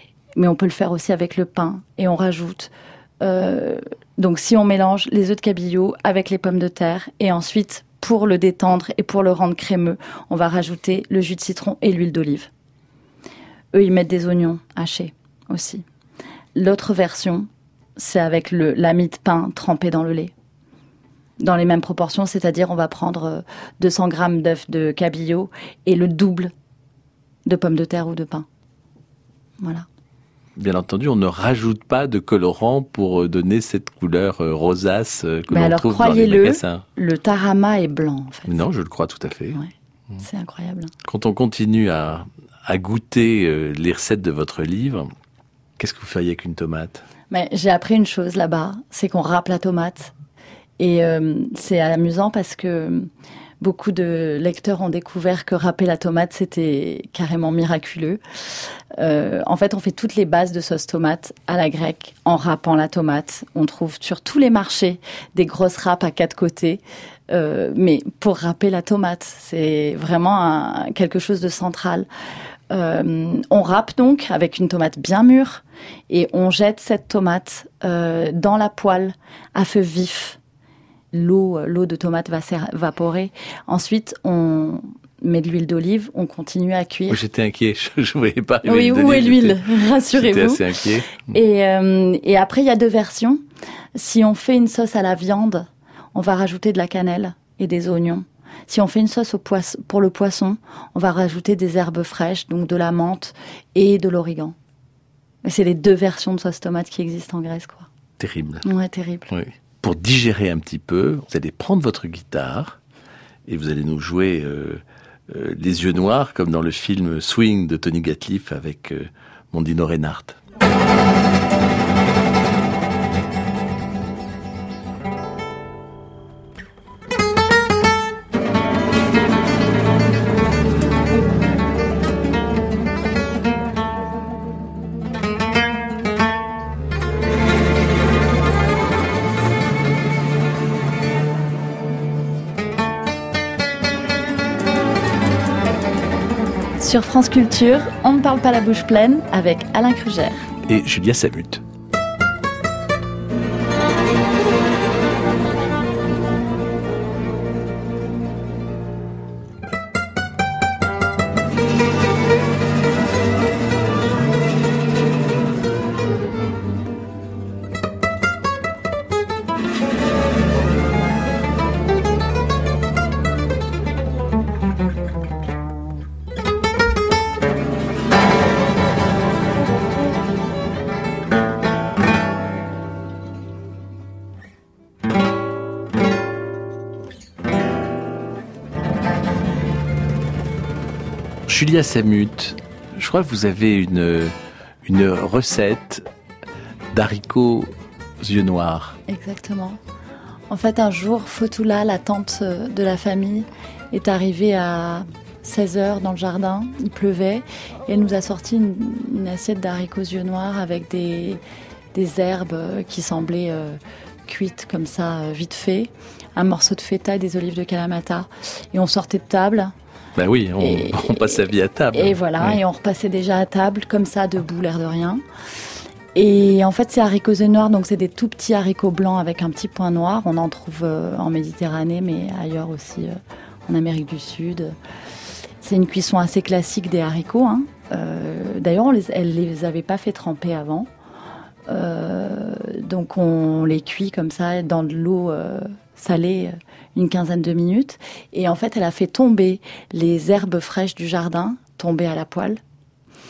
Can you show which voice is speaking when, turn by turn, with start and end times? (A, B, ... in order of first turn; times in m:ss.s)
0:00.4-0:12.5 A
0:13.7-0:15.8 A
0:16.5-0:20.3 A
0:21.4-0:26.5 A
0:27.4-0:28.4 A
0:29.6-0:29.8 A
0:30.6-0:36.8 B
0:35.5-0:38.6 A
0:38.5-0:39.6 B
0:39.5-0:40.9 A
0:41.0-0:45.1 B
0:45.8-0:47.0 B
0:47.3-0:50.1 A
0:50.8-0:53.1 A
0:53.6-1:12.1 A
1:12.7-1:20.4 A
1:21.1-1:27.2 A
1:27.1-1:31.3 B
1:28.6-1:30.6 A
1:31.2-1:33.4 A
1:33.9-1:44.6 A
1:45.4-1:47.9 A
1:48.2-1:48.6 B
1:48.6-1:49.3 A
1:49.3-1:52.8 B
1:53.5-2:00.4 B
2:26.8-2:30.5 A
2:30.7-2:31.6 B
3:11.5-3:14.3 B
3:14.8-3:16.0 B
3:16.9-3:17.7 B
3:18.2-3:19.0 B
3:19.1-3:19.8 A
3:20.5-3:31.4 A
3:31.9-3:39.7 A
3:40.2-3:42.6 B
3:40.6-3:45.2 A
3:46.1-3:54.7 A
3:55.6-4:00.9 A
4:01.7-4:12.6 A